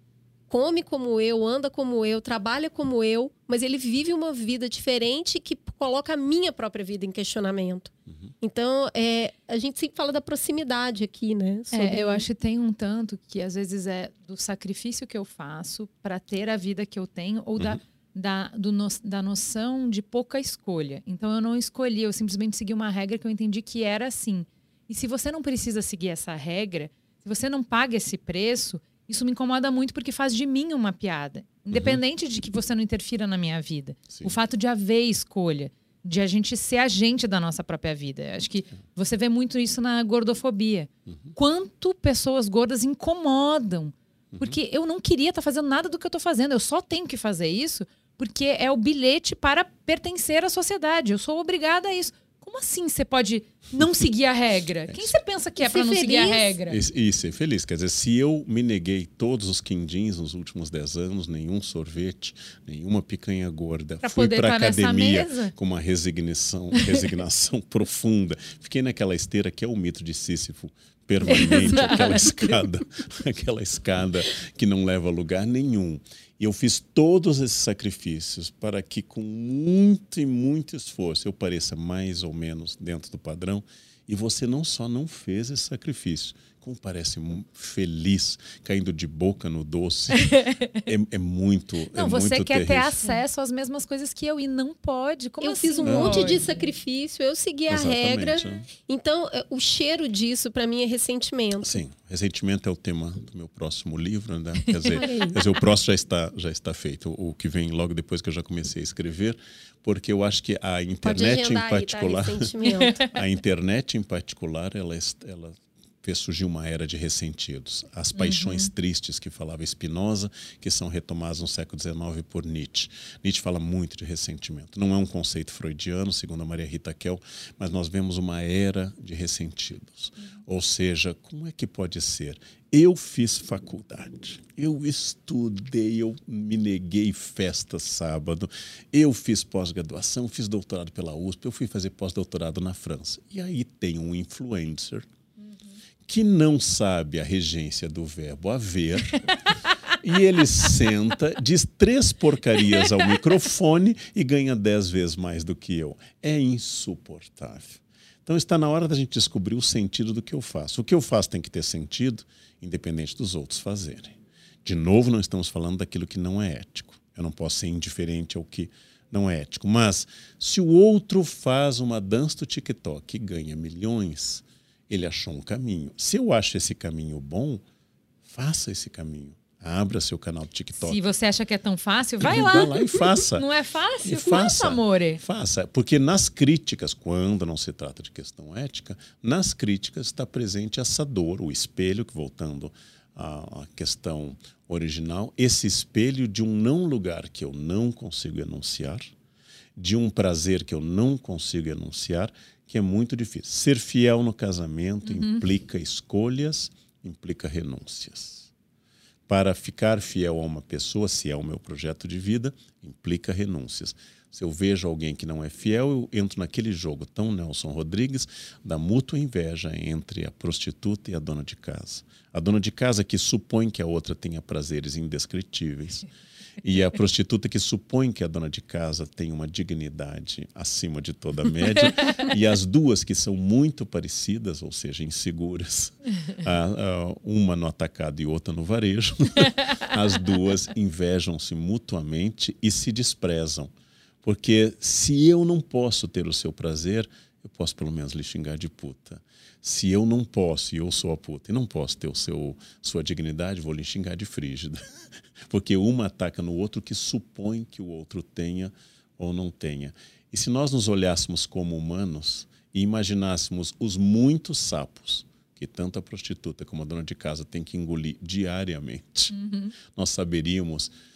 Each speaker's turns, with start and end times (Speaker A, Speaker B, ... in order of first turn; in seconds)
Speaker A: 0.5-12.2, 55.6-56.5, 95.4-101.7, 104.9-105.4, 111.0-113.0
Speaker B: 11.7-56.8, 64.0-65.5, 71.3-72.3, 90.2-90.6, 91.9-96.6, 112.6-112.9, 118.1-118.7, 180.8-185.2, 205.1-205.4, 269.3-269.7
Speaker C: 31.7-32.0, 41.1-41.3, 44.3-44.6, 54.9-55.1, 56.7-93.0, 95.8-96.4, 97.7-98.7, 101.6-112.5, 113.1-145.0, 146.1-149.3, 150.0-177.6, 178.2-181.0, 182.2-183.5, 184.0-199.1, 199.8-208.5, 209.3-226.1, 226.6-243.7, 244.2-254.8, 255.5-270.9